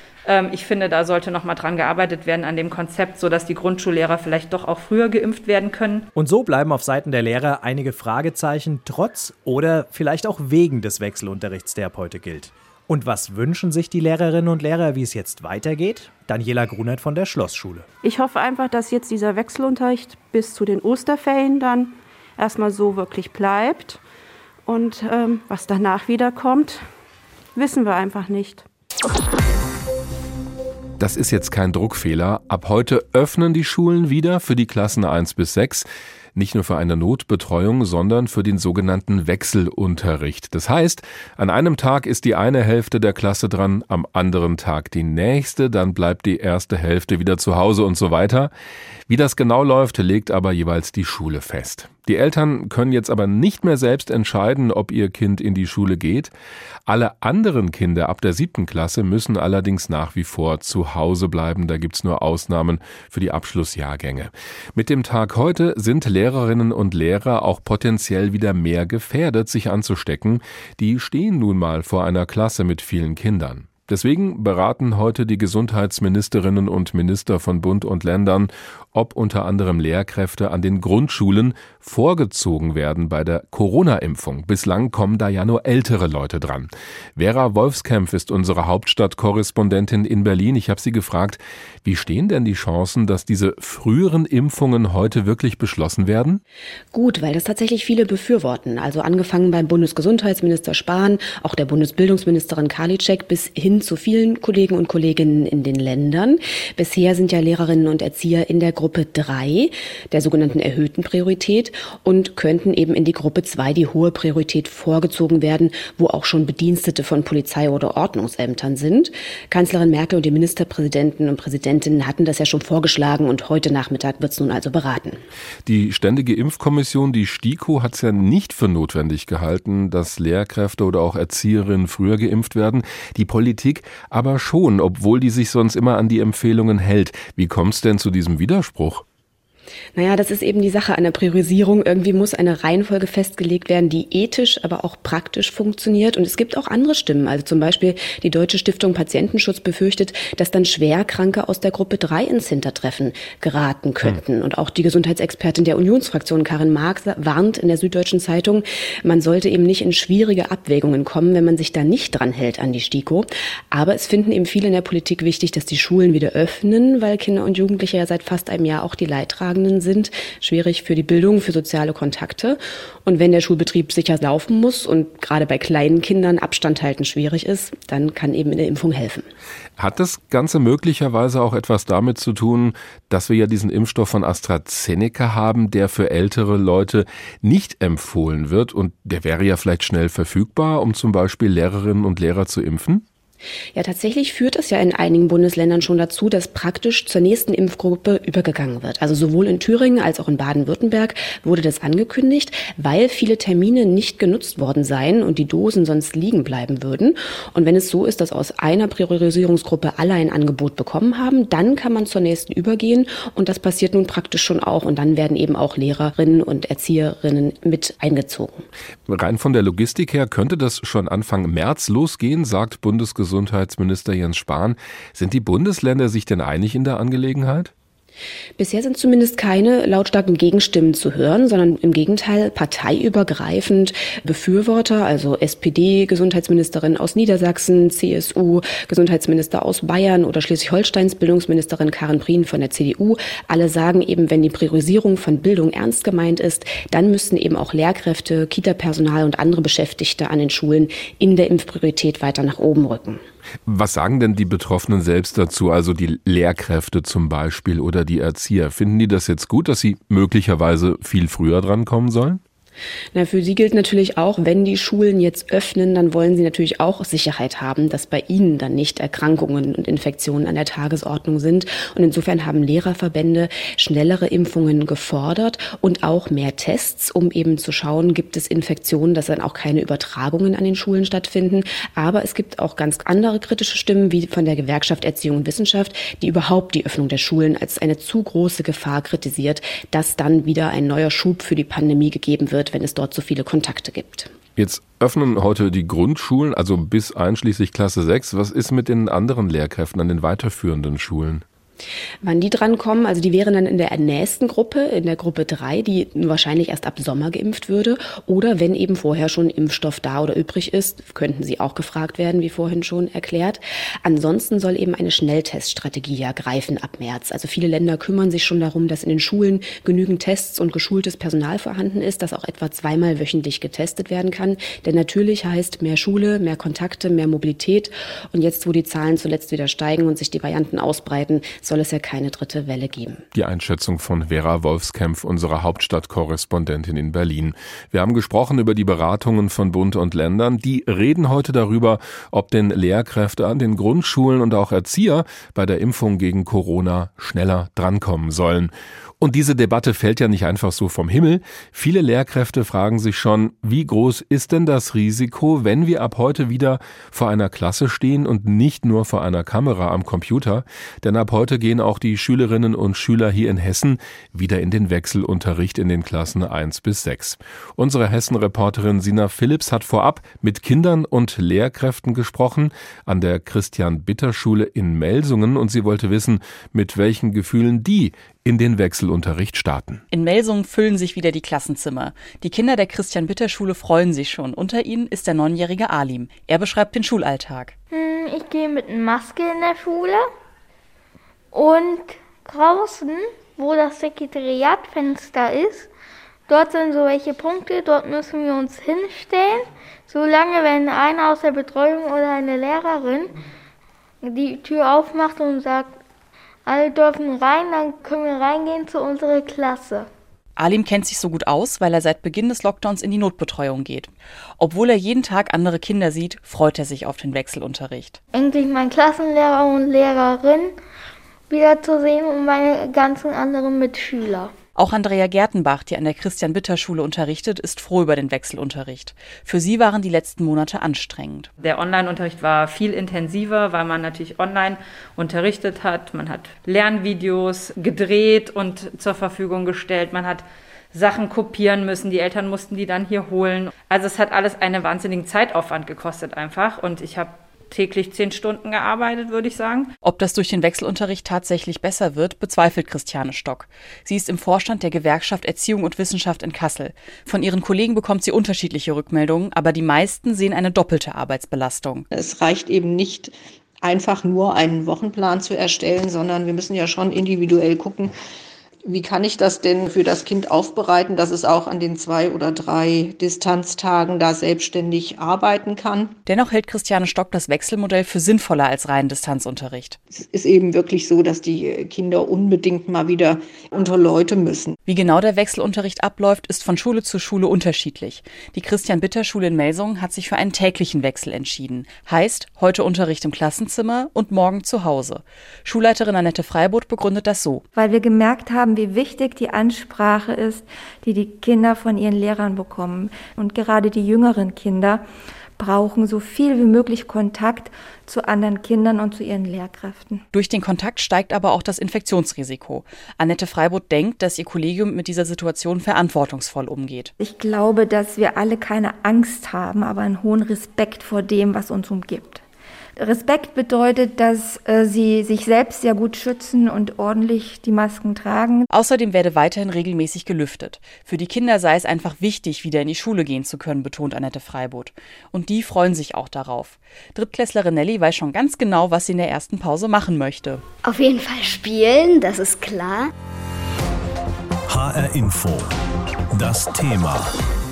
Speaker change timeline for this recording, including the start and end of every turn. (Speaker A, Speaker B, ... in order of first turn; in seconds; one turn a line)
Speaker A: 0.2-6.1
Speaker B: 6.1-17.9
Speaker C: 18.0-24.0
Speaker C: 24.6-26.9
Speaker C: 27.6-28.7
Speaker D: 31.0-48.5
Speaker D: 49.1-56.3
Speaker D: 56.9-96.4
Speaker E: 96.9-125.2
Speaker D: 125.6-139.0
Speaker E: 139.9-179.3
Speaker D: 179.8-193.1
Speaker E: 193.8-218.7
Speaker D: 219.1-227.7
Speaker E: 228.6-253.2
Speaker D: 253.7-262.4
Speaker E: 263.1-294.3
Speaker D: 294.6-301.4
Speaker E: 302.2-333.2
Speaker D: 333.3-380.0
Speaker F: 380.1-387.7
Speaker G: 387.9-390.2
Speaker G: 391.5-395.9
Speaker G: 396.5-403.4
Speaker G: 404.2-405.9
Speaker G: 406.6-410.1
Speaker F: 410.6-418.2
Speaker G: 418.3-420.8
Speaker G: 421.5-424.6
Speaker F: 424.8-431.5
Speaker A: 431.6-449.9
Speaker F: 450.0-462.1
Speaker H: 462.1-468.1
Speaker H: 468.8-476.2
Speaker F: 476.3-480.0
Speaker H: 480.1-484.8
Speaker F: 484.9-497.6
Speaker I: 497.8-505.1
Speaker I: 505.6-510.2
Speaker F: 510.3-517.1
Speaker I: 517.2-522.4
Speaker I: 523.0-528.7
Speaker F: 528.7-540.6
Speaker J: 540.8-543.1
Speaker K: 544.7-545.8
Speaker K: 546.3-547.4